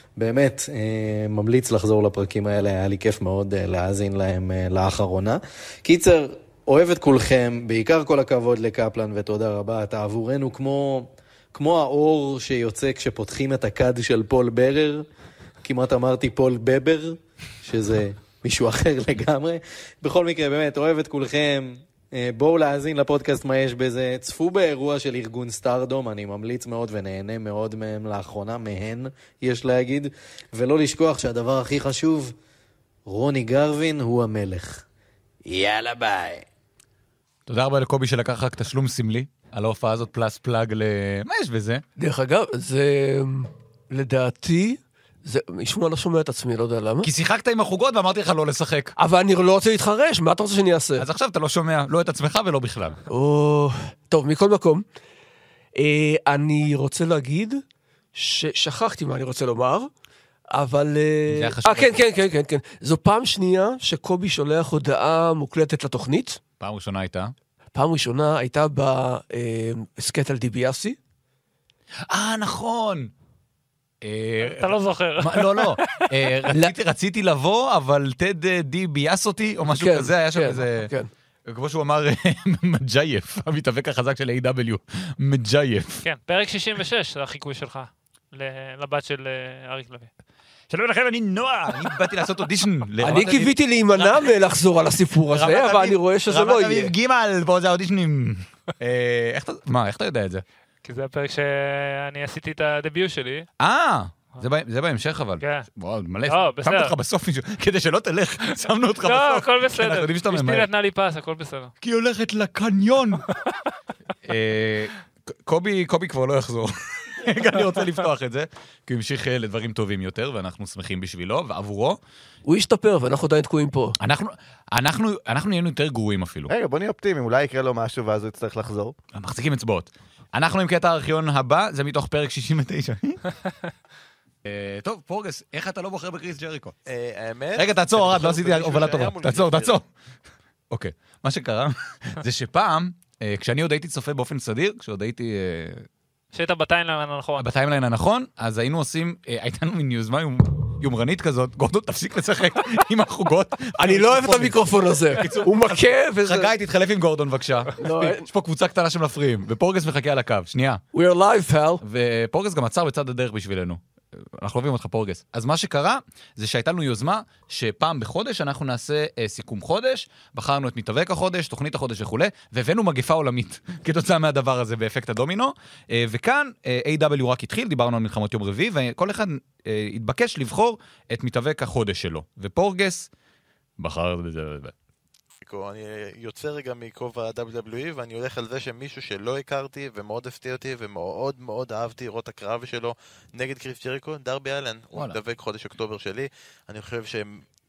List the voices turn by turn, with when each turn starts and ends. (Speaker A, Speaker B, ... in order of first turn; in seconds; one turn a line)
Speaker A: 0.2-15.1
Speaker A: 15.6-32.3
Speaker A: 33.0-34.8
Speaker A: 35.5-36.4
Speaker B: 37.5-41.8
Speaker C: 42.0-47.1
Speaker B: 47.0-48.9
Speaker C: 49.0-51.0
Speaker B: 51.0-53.0
Speaker C: 53.1-54.8
Speaker C: 55.8-57.6
Speaker C: 58.1-59.9
Speaker C: 60.5-66.4
Speaker B: 61.3-62.2
Speaker B: 66.6-67.3
Speaker C: 67.7-71.0
Speaker B: 72.1-73.1
Speaker B: 74.0-80.9
Speaker D: 74.4-76.0
Speaker C: 79.7-81.1
Speaker B: 81.5-86.0
Speaker D: 86.0-90.1
Speaker D: 90.7-92.1
Speaker B: 90.9-94.3
Speaker C: 93.0-96.9
Speaker B: 95.3-100.4
Speaker D: 100.8-103.5
Speaker B: 103.6-110.7
Speaker D: 105.4-105.7
Speaker D: 106.3-106.9
Speaker D: 109.0-111.7
Speaker B: 111.8-113.2
Speaker B: 114.2-122.0
Speaker C: 122.4-123.9
Speaker B: 124.0-126.5
Speaker E: 126.5-128.9
Speaker B: 129.1-133.2
Speaker B: 134.4-136.7
Speaker F: 136.9-139.8
Speaker B: 137.5-139.8
Speaker B: 140.7-145.8
Speaker D: 146.3-147.5
Speaker B: 147.4-160.8
Speaker C: 153.8-156.5
Speaker C: 157.8-158.3
Speaker C: 160.9-161.8
Speaker B: 161.8-163.8
Speaker B: 164.4-183.1
Speaker B: 183.8-184.7
Speaker F: 185.4-197.4